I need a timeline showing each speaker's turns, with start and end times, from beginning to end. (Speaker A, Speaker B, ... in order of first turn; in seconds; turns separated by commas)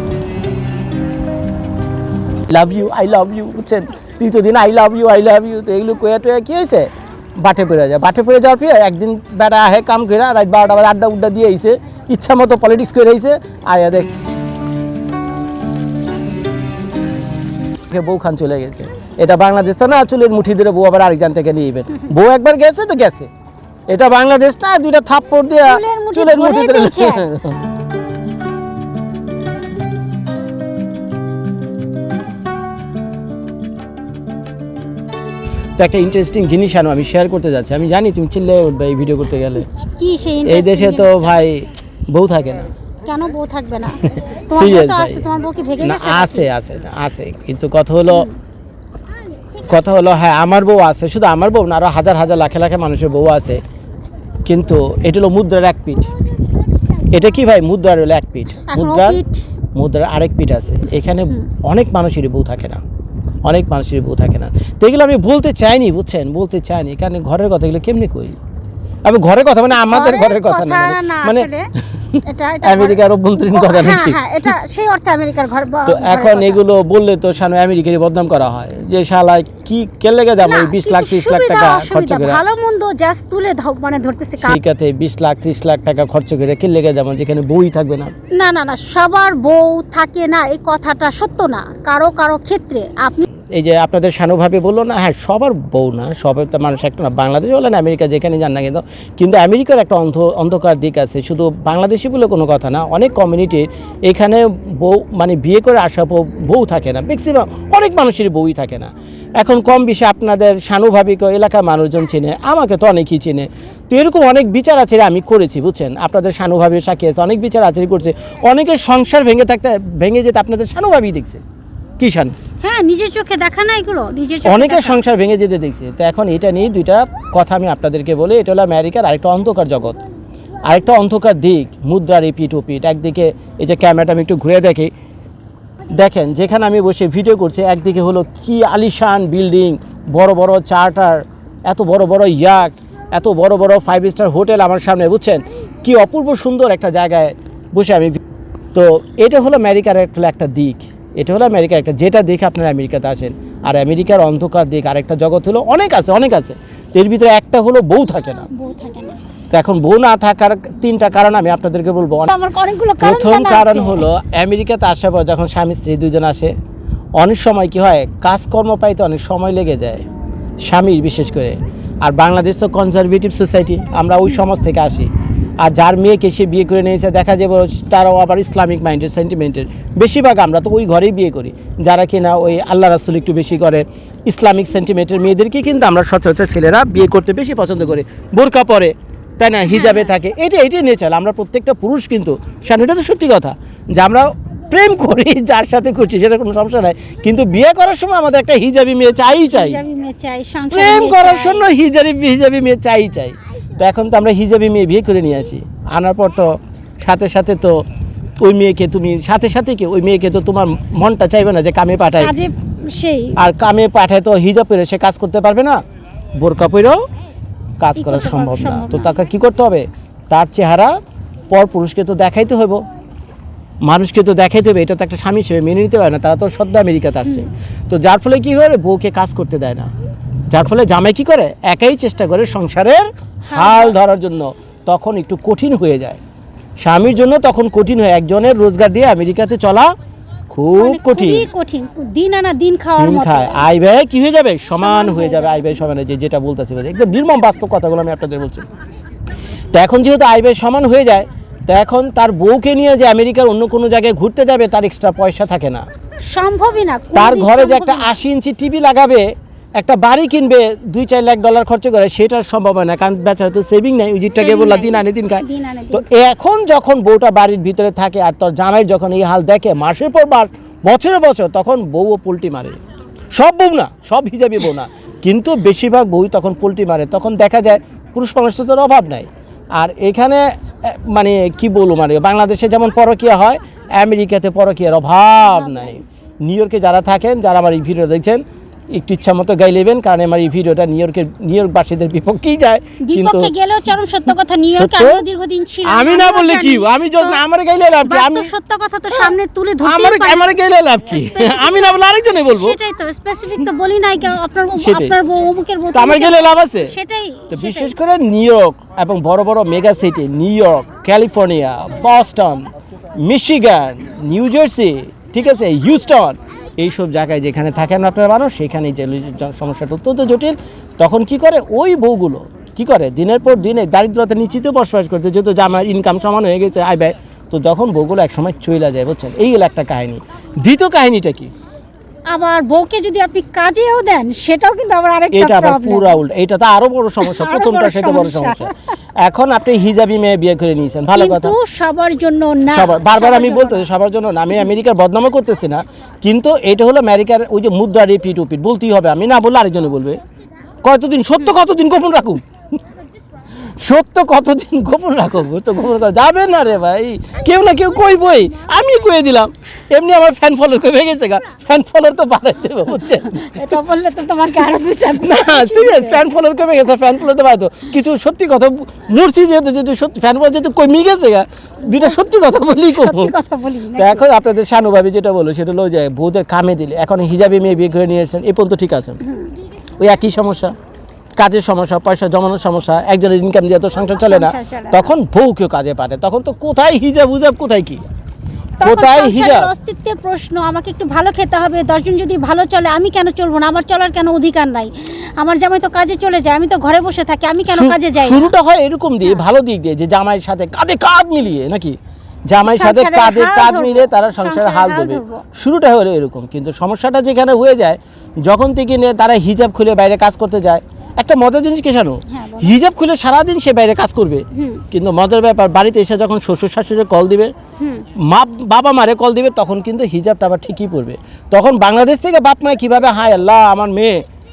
Speaker A: 2.5-14.1, Speaker A: 17.9-23.3, Speaker A: 23.9-27.6, Speaker B: 25.6-27.3, Speaker A: 35.8-39.7, Speaker B: 40.0-41.4, Speaker A: 40.4-42.7, Speaker B: 43.0-46.5, Speaker A: 44.1-45.2, Speaker A: 45.8-48.3, Speaker A: 49.7-53.6, Speaker A: 54.5-56.0, Speaker A: 57.1-59.2, Speaker B: 58.7-59.4, Speaker A: 59.7-62.8, Speaker A: 63.5-68.4, Speaker A: 69.0-74.2, Speaker B: 69.7-71.7, Speaker B: 72.2-76.6, Speaker A: 75.8-82.4, Speaker B: 80.4-84.6, Speaker A: 84.4-88.1, Speaker B: 88.3-93.2, Speaker A: 93.5-121.4, Speaker A: 122.0-122.3, Speaker B: 122.6-125.0, Speaker A: 124.4-130.0, Speaker A: 130.7-134.9, Speaker A: 135.9-148.2, Speaker A: 148.7-158.5, Speaker B: 158.5-159.2, Speaker A: 159.5-162.3, Speaker B: 162.2-164.1, Speaker A: 163.0-166.5, Speaker A: 167.2-170.0, Speaker A: 170.7-175.1, Speaker A: 175.6-199.8, Speaker B: 189.6-190.1, Speaker B: 199.5-201.7, Speaker A: 200.7-207.8, Speaker A: 208.4-212.3, Speaker B: 212.2-213.4, Speaker A: 213.4-215.8, Speaker A: 216.4-217.0, Speaker A: 217.8-220.9, Speaker B: 218.0-219.1, Speaker A: 221.5-222.8, Speaker A: 223.8-229.9, Speaker A: 230.5-236.2, Speaker B: 233.5-233.9, Speaker A: 236.8-239.9, Speaker A: 240.5-241.4, Speaker B: 240.7-243.7, Speaker A: 243.0-248.6, Speaker B: 244.8-245.8, Speaker A: 249.7-255.8, Speaker B: 256.2-258.1, Speaker A: 257.1-259.3, Speaker A: 259.8-272.8, Speaker B: 264.3-266.1, Speaker A: 273.4-288.4, Speaker B: 285.4-286.0, Speaker A: 288.9-293.5, Speaker B: 293.0-297.4, Speaker A: 294.7-295.2, Speaker A: 295.9-298.5, Speaker B: 298.0-300.5, Speaker A: 299.1-302.8, Speaker B: 301.1-307.9, Speaker A: 304.8-305.1, Speaker A: 305.9-306.9, Speaker A: 307.5-312.7, Speaker A: 313.2-331.5, Speaker B: 332.3-336.2, Speaker A: 335.3-341.5, Speaker B: 337.2-338.7, Speaker B: 341.1-343.9, Speaker A: 342.7-350.2, Speaker A: 350.8-352.4, Speaker A: 353.6-363.7, Speaker B: 363.3-366.2, Speaker A: 365.2-373.3, Speaker B: 371.9-374.2, Speaker A: 373.9-379.2, Speaker B: 379.2-379.5, Speaker A: 380.0-380.7, Speaker A: 381.4-388.0, Speaker B: 384.2-385.1, Speaker B: 388.8-398.5, Speaker A: 388.8-389.7, Speaker A: 397.7-402.0, Speaker A: 402.5-417.5, Speaker B: 402.6-405.4, Speaker B: 412.3-412.7, Speaker B: 414.5-414.8, Speaker B: 417.8-418.1, Speaker A: 418.2-424.2